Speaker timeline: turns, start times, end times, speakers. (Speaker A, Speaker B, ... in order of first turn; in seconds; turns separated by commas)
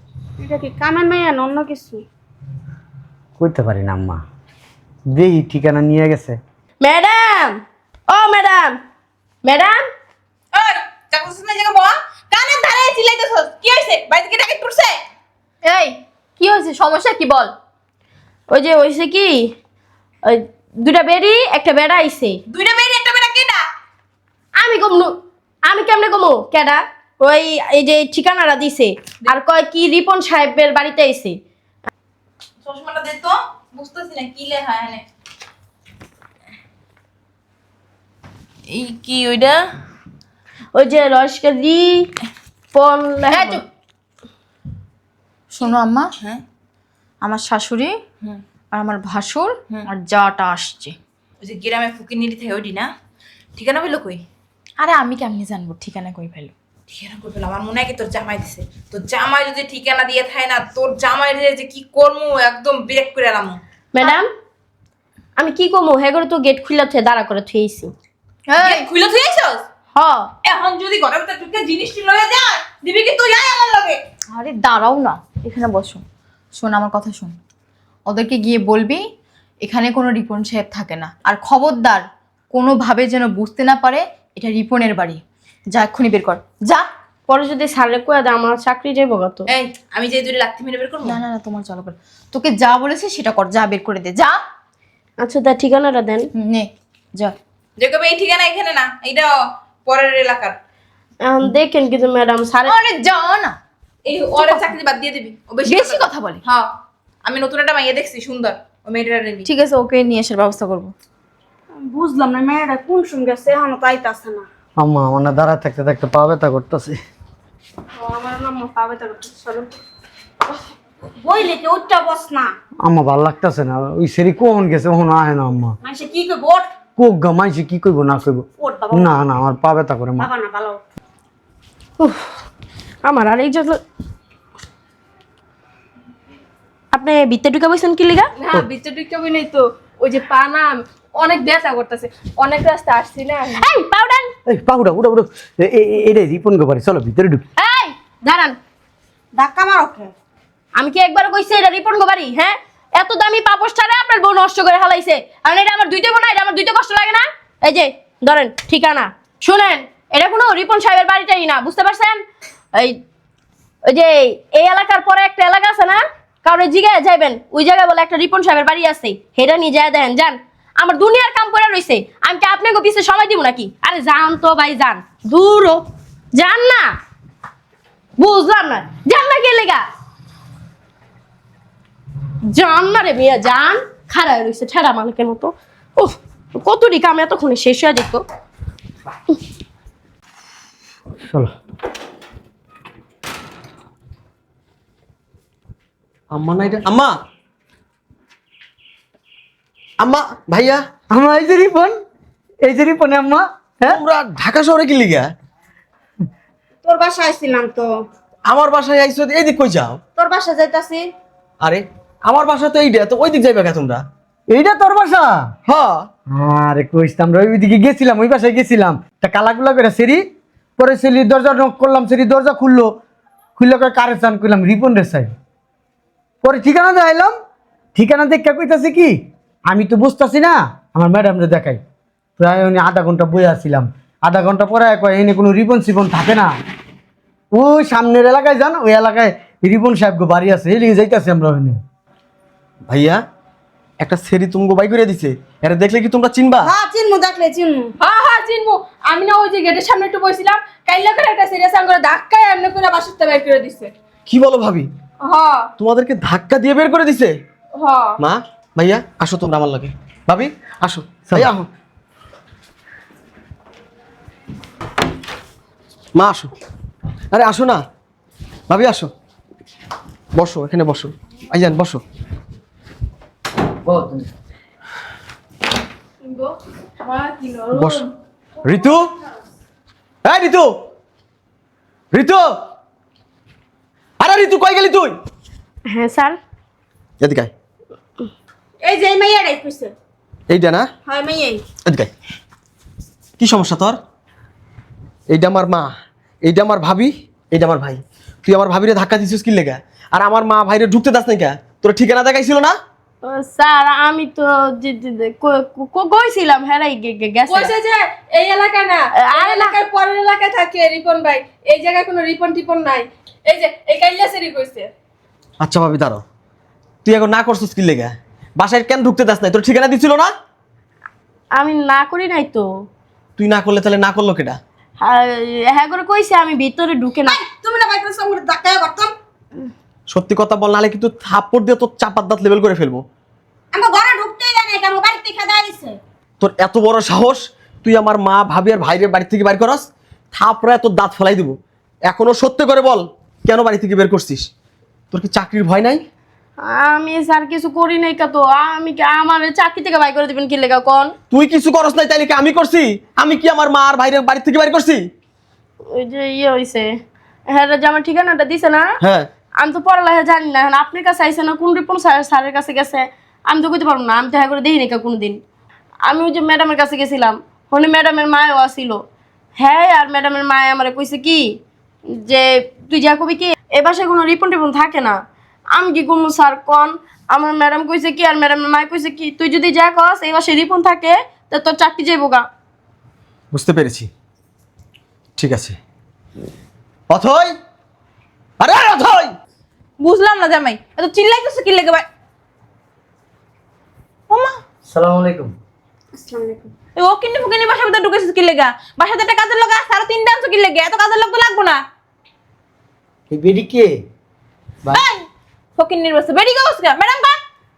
Speaker A: 0.4-2.0, Speaker B: 3.4-4.2, Speaker B: 5.1-6.4, Speaker C: 6.8-8.8, Speaker C: 9.4-9.8, Speaker D: 10.5-15.0, Speaker C: 18.5-19.5, Speaker C: 20.2-22.4, Speaker D: 22.5-23.6, Speaker C: 24.6-31.4, Speaker D: 32.6-35.0, Speaker D: 38.7-39.7, Speaker C: 40.7-42.1, Speaker C: 42.7-43.6, Speaker E: 45.5-46.1, Speaker D: 45.6-46.4, Speaker E: 47.2-48.0, Speaker E: 48.7-51.0, Speaker D: 51.4-52.9, Speaker D: 53.6-54.2, Speaker E: 54.8-56.5, Speaker D: 56.9-63.6, Speaker C: 63.9-64.3, Speaker C: 65.4-67.9, Speaker E: 68.5-68.9, Speaker D: 68.6-69.6, Speaker C: 70.0-70.3, Speaker D: 70.4-74.0, Speaker E: 74.3-76.0, Speaker E: 76.6-77.4, Speaker E: 78.1-79.1, Speaker E: 79.6-86.9, Speaker C: 87.3-89.5, Speaker D: 89.5-91.2, Speaker E: 91.0-94.4, Speaker C: 95.2-96.3, Speaker E: 96.3-97.3, Speaker D: 97.8-99.3, Speaker D: 99.9-100.6, Speaker C: 101.2-102.8, Speaker E: 102.7-103.6, Speaker D: 104.1-106.7, Speaker E: 104.4-104.7, Speaker E: 105.7-106.4, Speaker D: 107.2-109.5, Speaker E: 109.5-110.9, Speaker A: 111.8-114.5, Speaker B: 114.8-117.0, Speaker A: 118.0-119.7, Speaker A: 121.2-122.5, Speaker B: 122.8-125.8, Speaker A: 125.8-126.7, Speaker B: 127.0-130.3, Speaker A: 128.6-129.2, Speaker A: 130.2-130.8, Speaker C: 132.0-132.3, Speaker C: 133.0-133.8, Speaker C: 136.9-138.3, Speaker F: 138.4-143.7, Speaker C: 143.6-144.3, Speaker B: 144.5-147.4, Speaker C: 147.6-148.6, Speaker A: 149.4-150.1, Speaker C: 150.8-162.2, Speaker C: 162.7-163.0, Speaker C: 163.8-176.9, Speaker C: 178.2-179.8, Speaker C: 182.5-188.2, Speaker G: 196.3-197.1, Speaker G: 200.0-200.8, Speaker B: 201.1-201.9, Speaker B: 202.6-204.0, Speaker G: 203.9-205.3, Speaker A: 206.8-207.9, Speaker G: 208.5-210.0, Speaker A: 210.2-211.1, Speaker G: 211.6-214.0, Speaker B: 214.5-215.4, Speaker G: 215.7-216.1, Speaker B: 216.3-220.2, Speaker B: 220.8-222.9, Speaker B: 223.6-225.3, Speaker B: 226.4-227.3, Speaker B: 228.0-229.2, Speaker B: 229.7-231.8, Speaker B: 232.4-236.5, Speaker B: 237.6-241.8, Speaker G: 242.9-243.2, Speaker G: 244.0-246.7, Speaker A: 246.6-247.9, Speaker F: 248.0-253.9, Speaker G: 254.3-254.9, Speaker F: 255.2-255.7, Speaker G: 255.8-257.3, Speaker F: 257.8-258.2, Speaker G: 258.2-261.7, Speaker G: 266.2-266.5, Speaker G: 267.3-267.8, Speaker G: 268.7-269.1, Speaker G: 270.4-272.0, Speaker B: 273.9-274.3, Speaker F: 276.2-278.0, Speaker G: 277.7-278.1, Speaker G: 278.6-279.1, Speaker G: 280.2-280.8, Speaker G: 282.1-282.5, Speaker G: 284.2-285.2, Speaker C: 285.9-286.4, Speaker G: 287.2-287.5, Speaker A: 288.8-289.9, Speaker G: 290.5-290.9, Speaker A: 291.1-291.6, Speaker G: 293.4-294.0, Speaker G: 295.3-295.9, Speaker G: 296.4-302.8, Speaker C: 303.2-307.8, Speaker F: 307.5-314.9, Speaker C: 309.1-309.8, Speaker G: 315.6-316.2, Speaker G: 317.1-320.3, Speaker C: 321.6-322.7, Speaker G: 323.4-324.6, Speaker C: 325.0-327.4, Speaker A: 327.3-329.1, Speaker G: 330.1-333.0, Speaker A: 333.7-336.0, Speaker G: 336.4-341.6, Speaker G: 342.1-344.5, Speaker G: 345.1-346.0, Speaker C: 346.6-351.1, Speaker G: 351.3-355.0, Speaker C: 355.9-356.9, Speaker C: 357.5-359.0, Speaker G: 359.0-359.3, Speaker C: 359.6-365.4, Speaker C: 366.1-369.0, Speaker C: 369.6-371.6, Speaker C: 372.1-375.2, Speaker C: 375.8-382.5, Speaker G: 383.5-384.1, Speaker G: 385.4-385.8, Speaker G: 387.1-387.5, Speaker G: 388.6-389.3, Speaker D: 390.0-392.1, Speaker D: 394.3-394.6, Speaker B: 394.9-395.5, Speaker A: 396.1-396.7, Speaker D: 397.0-401.8, Speaker B: 403.3-403.9, Speaker D: 404.9-405.3, Speaker D: 405.8-407.4